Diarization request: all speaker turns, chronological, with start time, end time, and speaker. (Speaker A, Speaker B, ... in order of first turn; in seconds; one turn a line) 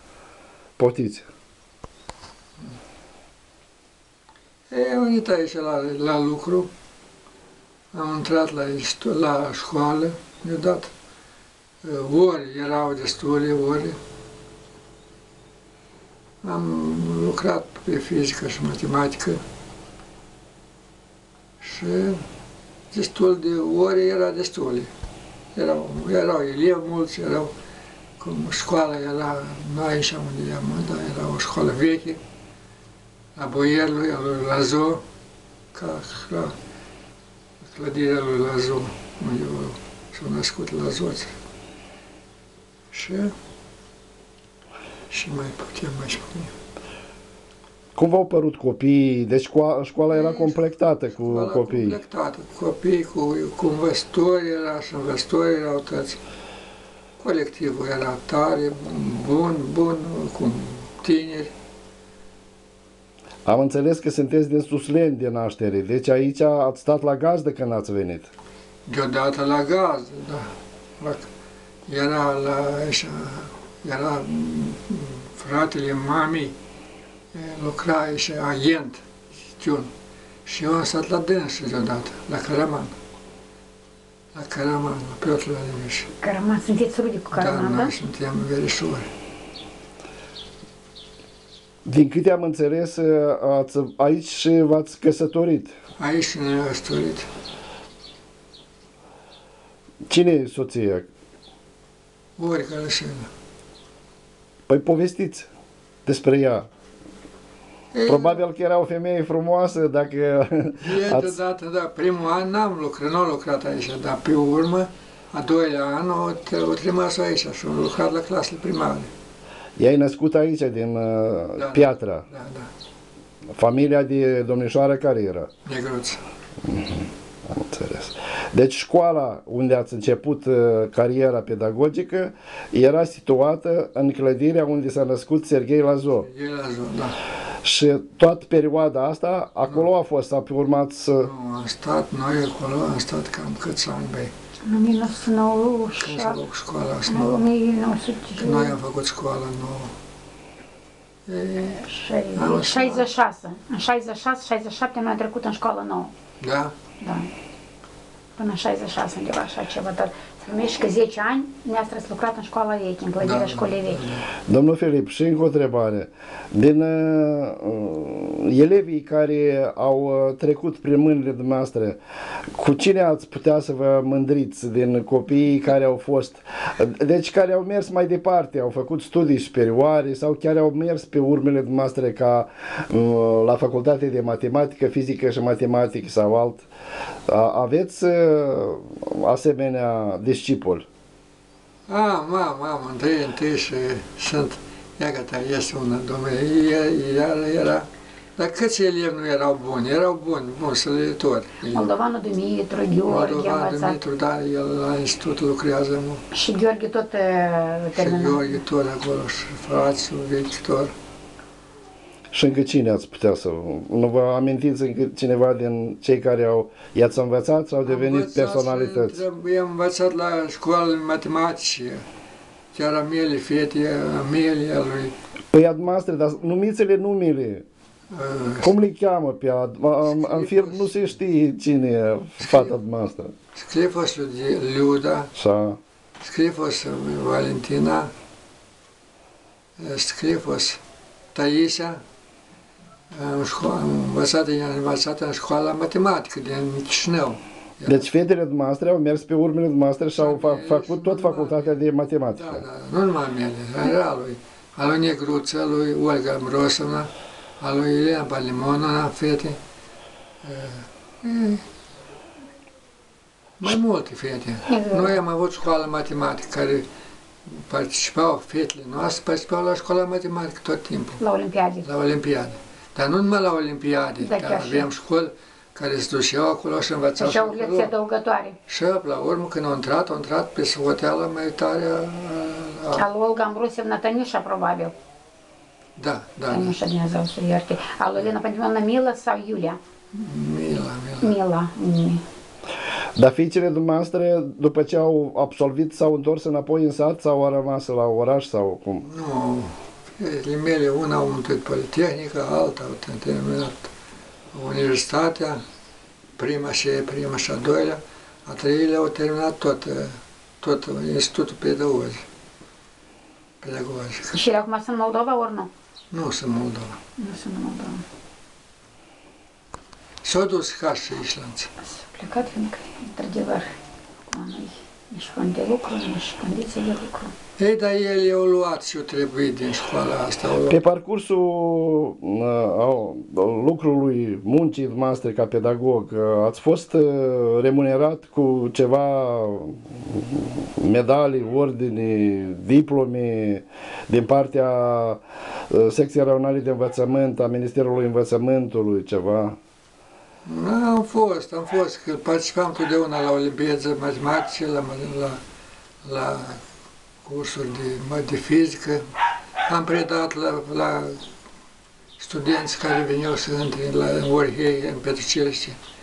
Speaker A: 0.8-1.3
Speaker B: 4.7-6.7
Speaker B: 7.9-10.9
Speaker B: 11.8-14.0
Speaker B: 16.4-19.4
Speaker B: 21.6-22.2
Speaker B: 22.9-24.9
Speaker B: 25.6-27.5
Speaker B: 28.2-32.2
Speaker B: 33.4-35.0
Speaker B: 35.7-36.5
Speaker B: 37.7-41.3
Speaker B: 42.9-43.3
Speaker B: 45.1-46.5
Speaker A: 48.0-52.0
Speaker B: 50.1-50.6
Speaker B: 51.1-56.2
Speaker B: 57.2-61.5
Speaker A: 63.5-68.3
Speaker B: 68.9-70.5
Speaker B: 71.0-71.3
Speaker B: 71.9-76.5
Speaker B: 77.3-79.9
Speaker B: 80.5-82.9
Speaker B: 84.3-86.1
Speaker C: 86.2-87.9
Speaker B: 87.3-89.1
Speaker A: 91.9-95.8
Speaker B: 96.0-97.3
Speaker A: 100.1-101.1
Speaker B: 102.4-103.3
Speaker A: 104.7-105.5
Speaker A: 106.1-106.7
Speaker B: 107.9-108.4
Speaker A: 108.1-111.4
Speaker B: 110.8-119.1
Speaker A: 119.8-122.2
Speaker B: 121.6-122.7
Speaker A: 123.5-125.5
Speaker B: 125.7-126.2
Speaker A: 126.6-136.3
Speaker B: 136.2-137.2
Speaker A: 137.6-141.3
Speaker B: 141.2-144.3
Speaker C: 144.6-146.4
Speaker B: 146.0-147.4
Speaker C: 147.1-148.8
Speaker B: 148.4-149.9
Speaker B: 151.3-153.1
Speaker C: 151.8-156.1
Speaker B: 156.4-156.7
Speaker C: 157.0-157.3
Speaker C: 158.4-164.0
Speaker B: 163.2-164.3
Speaker A: 164.5-172.0
Speaker A: 172.5-186.7
Speaker A: 187.3-190.9
Speaker B: 191.9-201.9
Speaker C: 201.7-204.0
Speaker B: 203.1-206.2
Speaker C: 206.3-208.6
Speaker B: 207.9-210.9
Speaker A: 212.3-219.2
Speaker B: 217.8-222.0
Speaker B: 222.7-225.2
Speaker A: 225.5-227.7
Speaker B: 228.1-228.7
Speaker A: 228.6-233.3
Speaker B: 230.0-230.9
Speaker B: 232.4-232.7
Speaker B: 233.6-235.3
Speaker A: 235.4-235.8
Speaker B: 236.2-238.1
Speaker B: 239.8-240.8
Speaker B: 241.3-242.0
Speaker B: 243.1-248.1
Speaker A: 247.9-252.6
Speaker B: 250.2-251.8
Speaker B: 252.4-259.6
Speaker B: 260.4-261.6
Speaker B: 263.6-266.9
Speaker C: 264.7-265.2
Speaker B: 267.5-271.2
Speaker C: 271.2-271.9
Speaker B: 271.8-277.9
Speaker C: 274.2-274.9
Speaker C: 277.2-278.6
Speaker B: 278.7-283.0
Speaker C: 282.9-284.9
Speaker B: 286.0-286.8
Speaker C: 286.5-289.8
Speaker B: 290.1-291.4
Speaker C: 291.2-292.2
Speaker A: 293.2-299.1
Speaker B: 299.0-303.9
Speaker B: 304.5-305.6
Speaker B: 306.4-312.2
Speaker B: 313.6-314.4
Speaker C: 314.3-315.7
Speaker B: 316.1-317.0
Speaker C: 317.2-318.0
Speaker B: 320.2-321.7
Speaker C: 321.8-323.7
Speaker C: 324.3-327.3
Speaker B: 327.6-330.8
Speaker A: 330.7-349.6
Speaker B: 350.5-355.4
Speaker B: 356.0-356.6
Speaker B: 357.2-359.0
Speaker B: 359.7-361.2
Speaker B: 362.2-365.8